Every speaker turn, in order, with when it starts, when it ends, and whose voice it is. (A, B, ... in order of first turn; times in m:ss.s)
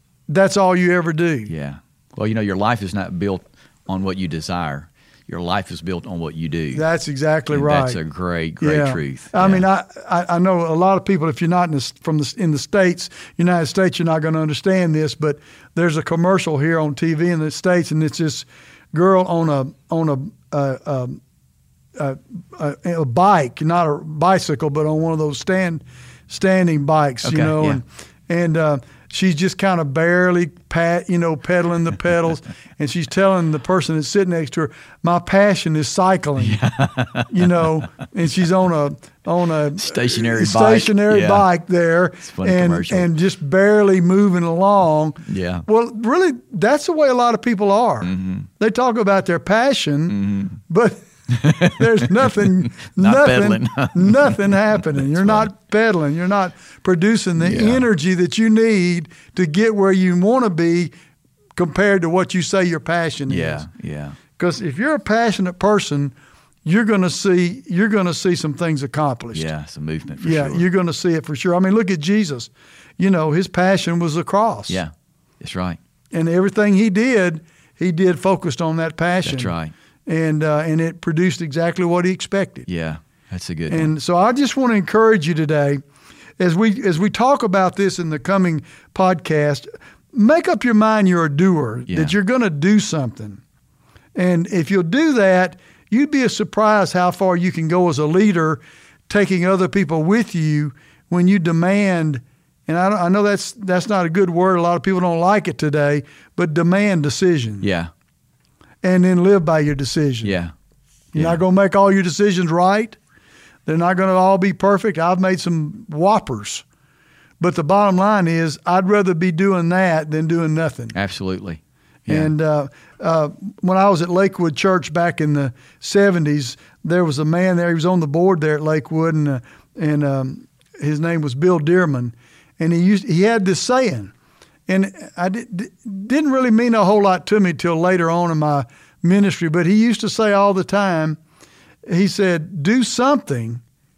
0:00.3-0:01.6 A
0:01.5-0:06.8 B
0:06.7-0:08.0 A
0:07.5-0:09.7 B
0:08.6-0:21.2 A
0:22.0-0:36.7 A
0:27.2-0:27.8 B
0:36.4-0:37.6 B
0:37.3-1:00.9 A
0:39.8-0:41.5 B
0:42.2-0:43.1 B
0:45.2-0:45.7 B
0:48.0-0:48.5 B
0:50.1-0:50.6 B
0:53.0-0:55.5 B
0:57.4-0:57.9 B
1:01.6-1:03.7 A
1:03.3-1:04.2 B
1:04.4-1:09.5 A
1:09.3-1:10.7 B
1:10.2-1:14.8 A
1:14.7-1:15.8 B
1:16.1-1:19.6 A
1:19.2-1:19.7 B
1:20.1-1:22.7 A
1:22.7-1:23.9 B
1:23.7-1:25.8 A
1:26.4-1:33.4 A
1:31.9-1:32.2 B
1:34.2-1:47.7 A
1:47.6-1:47.9 B
1:48.8-1:50.4 A
1:50.2-1:50.5 B
1:51.1-1:53.0 A
1:51.2-1:51.4 B
1:53.7-1:56.6 A
1:57.4-2:01.0 A
2:00.9-2:02.3 B
2:02.1-2:14.1 A
2:14.7-2:21.2 A
2:21.9-2:23.6 A